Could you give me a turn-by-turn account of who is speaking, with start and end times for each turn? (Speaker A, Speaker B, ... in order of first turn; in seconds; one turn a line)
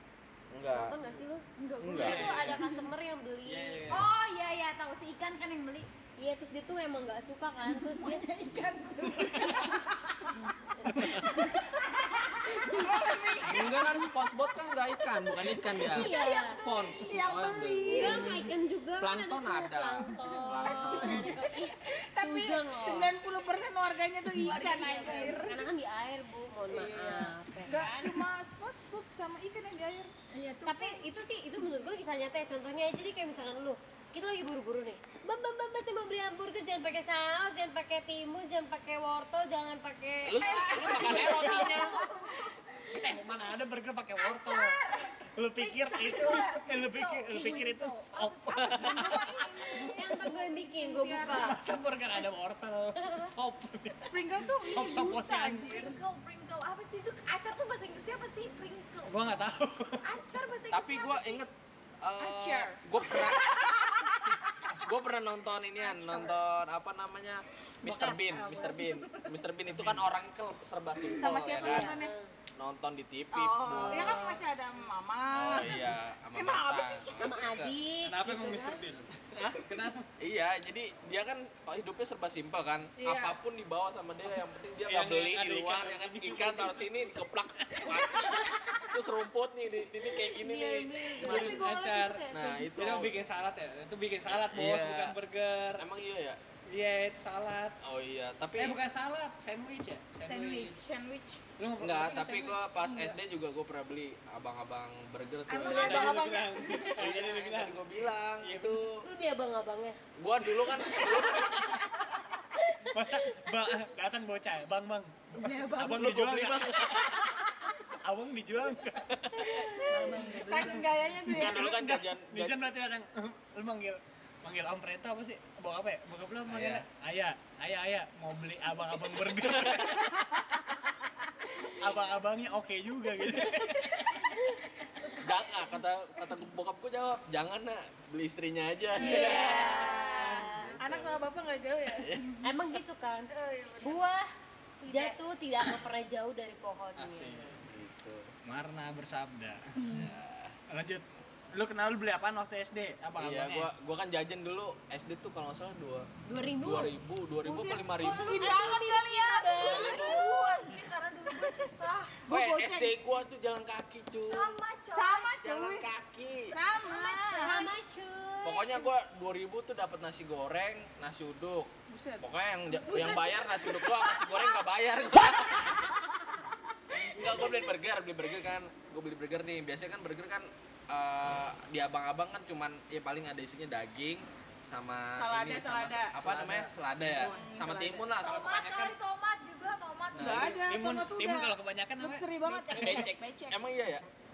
Speaker A: 0.5-1.0
Speaker B: 0.7-4.0
Speaker C: 1.6-2.5
Speaker A: 1.8-2.5
Speaker D: 1.9-2.6
Speaker A: 3.4-4.1
Speaker C: 3.9-5.9
Speaker B: 6.2-8.2
Speaker E: 7.9-9.8
Speaker C: 8.1-9.8
Speaker B: 10.3-11.2
Speaker D: 10.9-11.3
Speaker E: 11.2-14.0
Speaker B: 12.6-13.0
Speaker C: 12.9-13.7
Speaker A: 13.4-18.4
Speaker B: 15.9-16.6
Speaker E: 16.0-18.5
Speaker B: 17.9-23.1
Speaker A: 19.0-21.3
Speaker E: 20.5-25.6
Speaker C: 24.3-25.5
Speaker B: 24.4-28.2
Speaker E: 26.7-31.0
Speaker B: 30.6-41.7
Speaker A: 40.2-41.9
Speaker C: 40.4-41.9
Speaker E: 40.5-42.5
Speaker D: 41.2-41.8
Speaker D: 42.9-49.2
Speaker E: 44.4-45.1
Speaker E: 45.6-51.6
Speaker C: 45.9-47.2
Speaker B: 48.8-51.6
Speaker D: 51.2-55.9
Speaker B: 53.0-53.3
Speaker E: 54.0-56.0
Speaker C: 55.7-59.1
Speaker D: 59.0-60.1
Speaker C: 60.1-61.4
Speaker E: 60.2-61.3
Speaker A: 60.7-63.7
Speaker E: 62.2-64.4
Speaker C: 62.2-62.7
Speaker A: 64.8-71.9
Speaker E: 65.8-66.3
Speaker C: 66.0-66.3
Speaker E: 67.8-69.2
Speaker C: 67.9-68.8
Speaker D: 69.6-70.1
Speaker E: 71.1-72.1
Speaker B: 71.6-72.3
Speaker A: 72.6-74.4
Speaker E: 73.3-77.2
Speaker A: 75.3-77.7
Speaker B: 77.2-78.8
Speaker D: 78.0-80.1
Speaker A: 80.2-91.7
Speaker E: 83.0-83.4
Speaker D: 84.8-87.0
Speaker D: 87.7-88.0
Speaker E: 90.3-92.7
Speaker D: 91.2-95.8
Speaker A: 92.3-93.1
Speaker A: 94.3-95.1
Speaker A: 95.8-96.4
Speaker D: 96.7-97.8
Speaker A: 97.8-98.8
Speaker D: 98.5-100.8
Speaker C: 100.2-100.8
Speaker E: 100.5-101.4
Speaker D: 101.6-103.2
Speaker A: 101.8-106.3
Speaker C: 105.5-106.7
Speaker E: 105.6-106.9
Speaker D: 105.6-108.8
Speaker A: 106.9-109.0
Speaker B: 109.0-110.0
Speaker A: 110.2-111.8
Speaker D: 110.6-111.8
Speaker B: 112.7-112.9
Speaker D: 112.8-130.5
Speaker E: 115.4-115.8
Speaker A: 115.8-117.3
Speaker E: 119.5-121.6
Speaker B: 119.9-120.4
Speaker A: 121.3-122.6
Speaker A: 126.5-126.8
Speaker A: 129.6-130.1
Speaker D: 131.7-134.2
Speaker B: 134.3-134.6
Speaker A: 135.1-141.2
Speaker E: 138.9-142.4
Speaker B: 139.0-140.7
Speaker C: 139.5-139.9
Speaker A: 141.9-142.3
Speaker B: 142.4-143.3
Speaker E: 143.3-144.0
Speaker B: 143.8-144.3
Speaker E: 144.8-145.2
Speaker B: 144.8-147.3
Speaker D: 147.0-147.6
Speaker A: 147.6-148.3
Speaker D: 148.4-149.8
Speaker A: 149.9-150.6
Speaker D: 150.7-153.7
Speaker A: 153.2-158.5
Speaker B: 156.3-156.9
Speaker E: 157.4-162.9
Speaker B: 158.4-160.0
Speaker A: 159.6-160.2
Speaker C: 159.9-162.2
Speaker A: 162.3-164.6
Speaker C: 164.2-165.3
Speaker E: 164.9-165.9
Speaker A: 165.4-166.5
Speaker E: 166.5-167.7
Speaker B: 166.5-168.9
Speaker A: 168.4-176.0
Speaker E: 171.9-174.6
Speaker A: 176.9-188.6
Speaker E: 185.1-186.3
Speaker D: 186.2-187.5
Speaker E: 187.2-189.1
Speaker C: 188.2-190.4
Speaker D: 188.2-188.9
Speaker E: 190.1-193.6
Speaker A: 190.1-190.7
Speaker D: 190.4-193.0
Speaker A: 192.7-194.1